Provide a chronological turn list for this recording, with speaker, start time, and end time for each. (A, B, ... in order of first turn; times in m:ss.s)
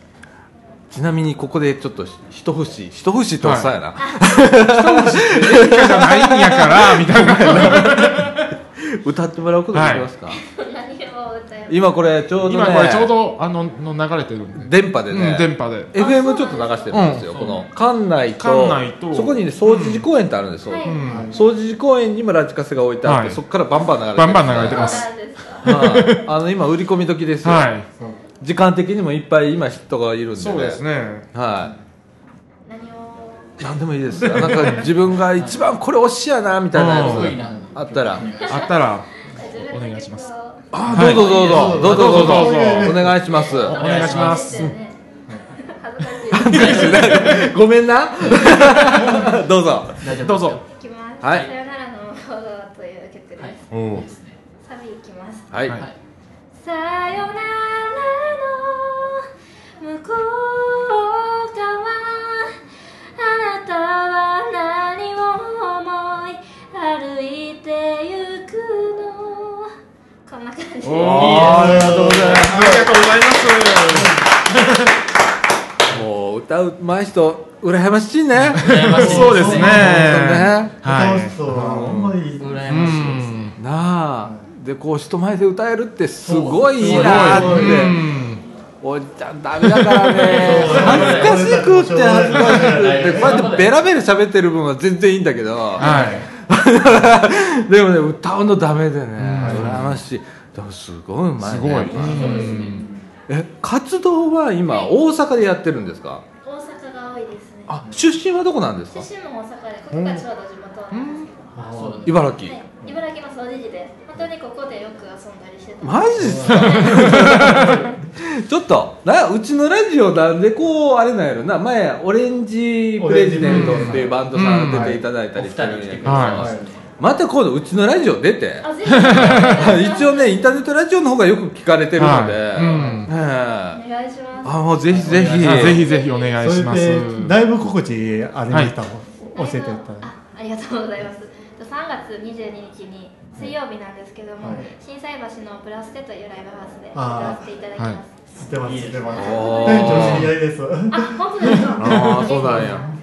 0:00.9-0:10.4 A
0:03.4-0:03.7 B
0:04.0-0:04.5 C
0:04.6-0:08.5 B
0:09.7-0:10.1 B
0:10.3-0:12.1 C
0:11.7-0:13.1 A
0:12.4-0:16.0 B
0:14.6-0:25.1 A
0:16.0-0:17.1 C
0:16.9-0:17.4 B
0:17.3-0:17.6 D
0:18.4-0:20.1 B
0:20.6-0:21.2 C
0:20.8-0:21.3 B
0:21.0-0:21.4 E
0:23.0-0:23.4 B
0:24.1-0:25.1 B
0:24.6-0:25.7 C
0:25.6-0:26.3 B
0:25.6-0:27.7 A
0:27.4-0:27.9 B
0:28.4-0:30.8 A
0:30.4-0:31.3 B
0:31.3-0:31.7 A
0:32.6-0:33.7 C
0:33.6-0:38.2 A
0:34.2-0:34.9 B
0:35.4-0:35.6 D
0:36.7-0:37.4 B
0:36.8-0:38.7 D
0:38.4-0:40.8 C
0:38.5-0:40.3 B
0:40.7-0:43.8 A
0:40.9-0:44.8 B
0:40.9-0:43.6 E
0:41.3-0:41.8 D
0:43.3-0:45.0 C
0:43.7-0:44.5 D
0:45.6-0:47.2 C
0:46.3-0:50.0 A
0:46.4-0:47.4 D
0:48.6-0:49.2 B
0:50.0-0:50.6 D
0:50.1-0:50.6 B
0:50.6-0:53.6 C
0:51.2-0:51.5 A
0:53.4-0:54.4 D
0:53.7-0:54.1 B
0:54.6-0:55.6 C
0:55.5-0:55.8 A
0:56.6-0:59.2 C
0:59.8-1:02.5 C
1:03.2-1:09.7 C
1:10.3-1:11.4 C
1:10.8-1:14.9 B
1:11.0-1:12.6 A
1:11.2-1:13.0 E
1:15.9-1:18.6 A
1:18.4-1:22.0 B
1:18.6-1:20.0 D
1:19.0-1:23.2 E
1:19.4-1:20.8 A
1:21.5-1:22.1 A
1:22.4-1:23.5 D
1:22.7-1:23.6 B
1:23.6-1:28.0 A
1:26.2-1:27.8 D
1:26.8-1:27.9 E
1:26.8-1:28.4 B
1:28.8-1:42.6 A
1:29.8-1:30.2 B
1:30.2-1:31.5 D
1:30.3-1:33.5 E
1:32.5-1:33.9 D
1:35.8-1:36.3 D
1:35.8-1:36.3 B
1:39.2-1:40.0 B
1:39.4-1:39.9 E
1:41.4-1:42.9 B
1:41.9-1:43.0 D
1:43.3-1:46.2 A
1:44.6-1:45.0 C
1:46.4-1:47.8 C
1:47.7-1:49.1 A
1:48.9-1:51.4 C
1:49.9-1:50.3 B
1:50.9-1:51.3 B
1:51.6-1:52.3 E
1:51.7-1:52.2 D
1:52.0-1:52.6 A
1:52.4-1:57.9 C
1:55.8-1:57.8 A
1:56.2-1:57.7 E
1:56.3-1:57.8 B
1:58.4-2:13.8 A
2:03.0-2:05.0 E
2:03.4-2:05.0 B
2:05.4-2:06.8 D
2:06.0-2:06.5 B
2:06.3-2:06.7 E
2:08.6-2:10.5 C
2:08.9-2:09.8 B
2:12.0-2:13.1 B
2:12.7-2:13.0 E
2:13.7-2:16.5 C
2:14.4-2:15.8 A
2:14.9-2:15.7 D
2:15.3-2:17.4 B
2:16.4-2:20.1 E
2:18.5-2:18.8 B
2:19.4-2:28.1 C
2:24.4-2:24.7 E
2:26.9-2:27.5 E
2:28.4-2:31.9 E
2:28.6-2:29.6 D
2:29.2-2:30.2 C
2:29.2-2:30.3 A
2:30.0-2:30.2 B
2:30.9-2:32.9 C
2:31.4-2:32.8 B
2:31.8-2:32.8 A
2:32.4-2:32.8 E